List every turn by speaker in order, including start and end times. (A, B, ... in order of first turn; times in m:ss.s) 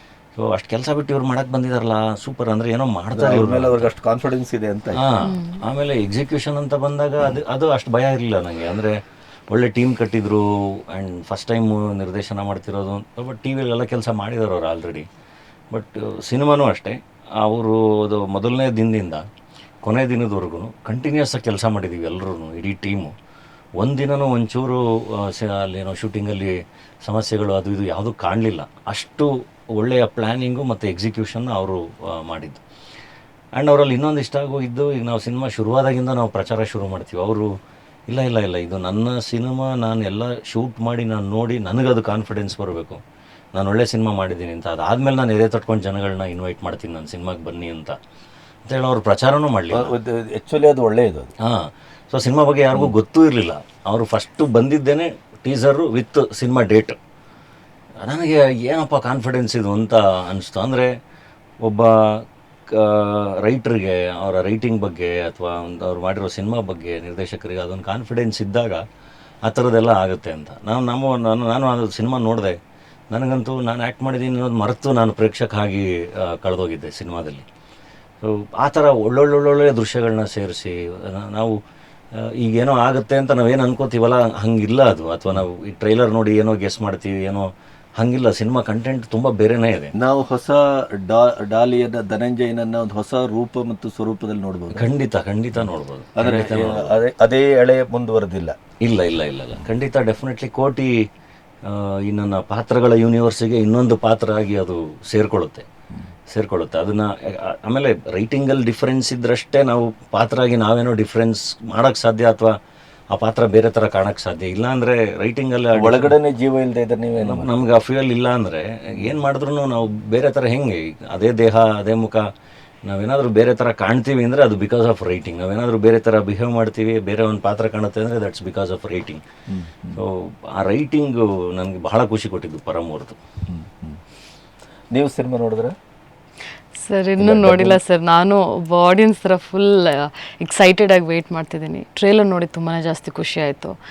0:00.4-0:03.9 A
0:03.1-0:05.1 B
0:05.0-0:09.0 A
0:05.2-0:05.6 C
0:09.5-0:15.1 A
0:15.7-0:19.3 A
0:19.8-0:23.1 A
0:23.8-0:32.6 A
0:33.6-0:37.5 A
0:38.1-0:43.0 A
0:43.5-0:48.0 A
0:48.7-0:49.9 A
0:49.7-0:51.3 B
0:51.4-0:57.0 A
0:58.0-1:00.9 A
1:01.6-1:08.8 A
1:09.5-1:12.6 A
1:13.1-1:17.4 A
1:18.2-1:21.6 A
1:22.2-1:29.9 A
1:30.0-1:34.9 B
1:34.7-1:36.9 A
1:36.2-1:38.6 B
1:38.8-1:40.9 A
1:41.6-1:45.7 A
1:46.3-1:52.5 A
1:53.1-1:56.1 A
1:55.8-1:57.6 B
1:57.2-2:02.2 A
2:02.9-2:09.2 A
2:09.5-2:10.0 B
2:10.0-2:13.2 A
2:13.5-2:14.0 B
2:14.9-2:15.8 B
2:16.8-2:23.8 C
2:17.2-2:17.8 B